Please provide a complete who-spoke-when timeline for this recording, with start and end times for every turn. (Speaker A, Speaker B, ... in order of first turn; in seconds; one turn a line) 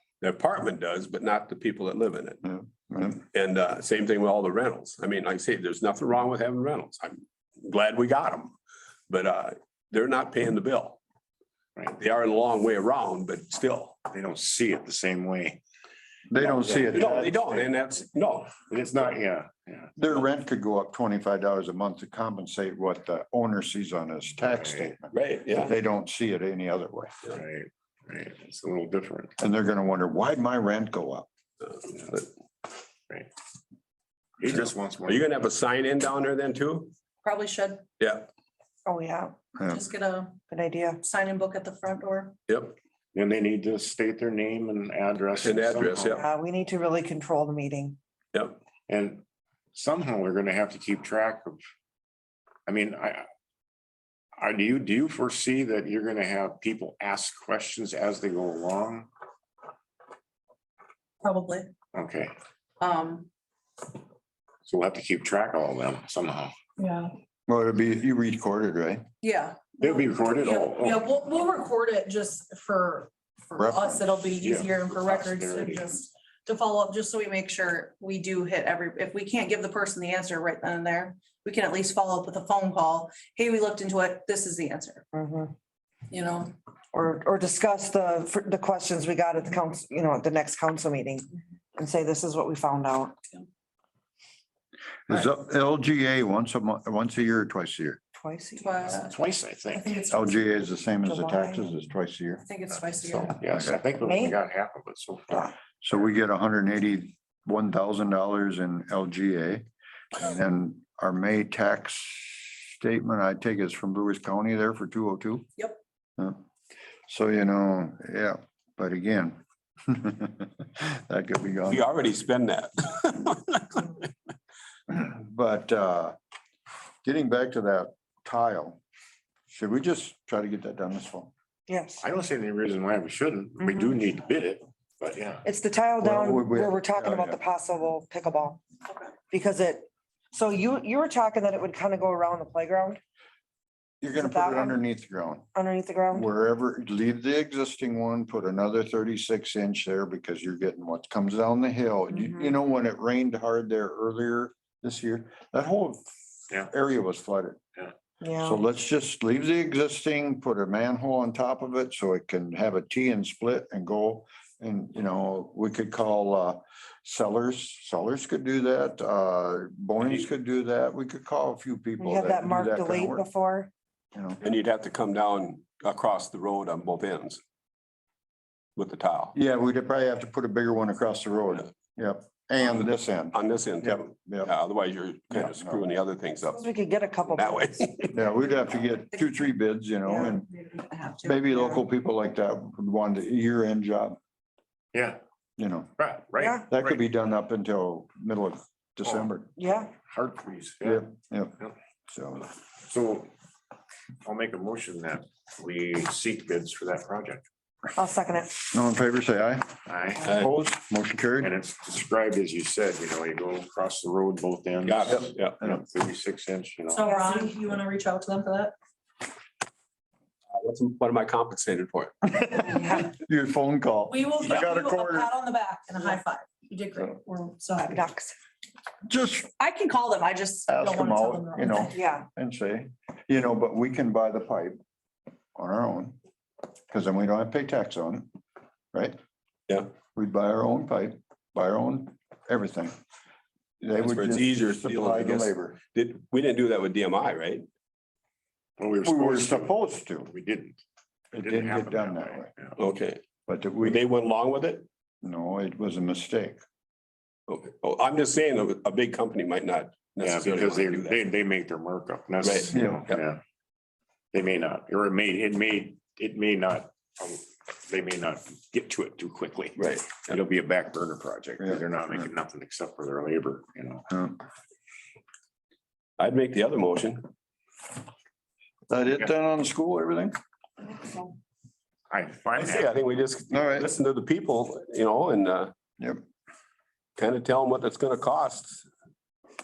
Speaker A: 0.2-2.4
Speaker B: 2.4-3.2
Speaker A: 3.3-8.6
Speaker A: 9.1-11.0
Speaker A: 11.9-14.0
Speaker C: 14.1-15.6
Speaker B: 16.3-17.4
Speaker C: 16.4-17.7
Speaker A: 16.9-18.6
Speaker C: 18.7-19.9
Speaker B: 20.0-27.1
Speaker C: 24.4-25.0
Speaker A: 25.1-25.8
Speaker C: 27.3-29.3
Speaker B: 29.4-31.3
Speaker C: 34.4-35.5
Speaker A: 34.5-36.9
Speaker D: 37.2-37.8
Speaker A: 38.0-38.3
Speaker E: 38.9-39.4
Speaker D: 39.6-40.4
Speaker E: 40.5-41.0
Speaker D: 41.0-42.3
Speaker A: 42.5-42.8
Speaker C: 43.1-46.2
Speaker A: 45.4-46.2
Speaker E: 46.2-48.0
Speaker C: 48.9-51.6
Speaker C: 52.7-53.3
Speaker C: 54.4-59.1
Speaker D: 61.2-61.7
Speaker C: 61.9-62.3
Speaker D: 62.8-63.3
Speaker C: 64.7-66.5
Speaker D: 66.8-67.1
Speaker B: 67.5-69.0
Speaker D: 69.2-85.0
Speaker C: 69.8-71.1
Speaker B: 73.6-74.3
Speaker C: 74.4-76.0
Speaker E: 85.1-85.5
Speaker D: 86.1-86.5
Speaker E: 86.9-93.2
Speaker B: 95.1-98.0
Speaker E: 98.2-99.0
Speaker D: 98.6-99.2
Speaker C: 99.0-100.0
Speaker D: 99.7-100.5
Speaker B: 100.1-102.5
Speaker E: 101.0-101.8
Speaker D: 102.5-103.4
Speaker C: 102.9-105.5
Speaker E: 104.0-104.3
Speaker B: 105.8-115.5
Speaker B: 117.1-121.9
Speaker A: 121.7-124.1
Speaker B: 124.9-126.2
Speaker B: 127.0-128.8
Speaker B: 129.5-131.3
Speaker E: 131.7-132.0
Speaker C: 132.0-135.5
Speaker E: 135.4-138.6
Speaker B: 136.0-137.4
Speaker E: 139.3-143.0
Speaker B: 144.0-145.5
Speaker E: 144.1-144.8
Speaker E: 145.5-146.3
Speaker B: 146.1-157.6
Speaker E: 152.1-152.5
Speaker E: 158.2-158.6
Speaker B: 158.4-173.3
Speaker E: 172.0-173.7
Speaker B: 174.1-174.4
Speaker A: 174.4-177.4
Speaker A: 178.8-179.4
Speaker B: 179.3-184.5
Speaker A: 182.6-186.7
Speaker B: 185.3-185.8
Speaker E: 186.5-187.7
Speaker A: 187.3-188.3
Speaker B: 188.1-190.5
Speaker D: 190.4-191.4
Speaker B: 191.2-194.2
Speaker C: 194.9-195.2
Speaker B: 195.6-195.9
Speaker C: 196.0-197.0
Speaker B: 196.6-199.6
Speaker C: 199.0-201.1
Speaker E: 199.6-199.9
Speaker B: 200.8-201.6
Speaker B: 202.1-202.5
Speaker C: 202.8-203.3
Speaker C: 204.2-207.5
Speaker E: 208.0-208.6
Speaker B: 208.6-209.7
Speaker C: 209.9-210.4
Speaker B: 210.2-211.5
Speaker C: 211.4-217.0
Speaker A: 214.8-215.6
Speaker D: 216.9-218.7
Speaker E: 217.0-217.4
Speaker A: 220.5-222.2
Speaker B: 222.3-225.3
Speaker D: 224.1-228.1
Speaker E: 227.9-228.3
Speaker B: 229.1-229.5
Speaker D: 229.6-232.0
Speaker B: 230.7-234.8
Speaker E: 232.0-232.3
Speaker B: 235.6-236.2
Speaker B: 236.9-238.3
Speaker B: 238.9-239.2
Speaker B: 240.2-242.9
Speaker B: 243.8-245.8
Speaker A: 244.0-247.7
Speaker C: 248.8-250.8
Speaker B: 249.0-250.3
Speaker C: 251.3-252.8
Speaker B: 251.3-252.5
Speaker A: 252.8-253.2
Speaker B: 253.5-254.0
Speaker A: 253.8-254.9
Speaker B: 255.2-256.6
Speaker A: 257.5-261.3
Speaker C: 260.2-263.4
Speaker A: 262.4-263.2
Speaker B: 262.7-263.0
Speaker C: 264.3-274.1
Speaker A: 269.8-270.4
Speaker B: 271.6-272.3
Speaker B: 274.1-274.4
Speaker A: 276.2-277.3
Speaker B: 278.9-280.4
Speaker C: 282.1-283.0
Speaker A: 282.5-285.7
Speaker B: 283.5-283.9
Speaker A: 287.2-288.9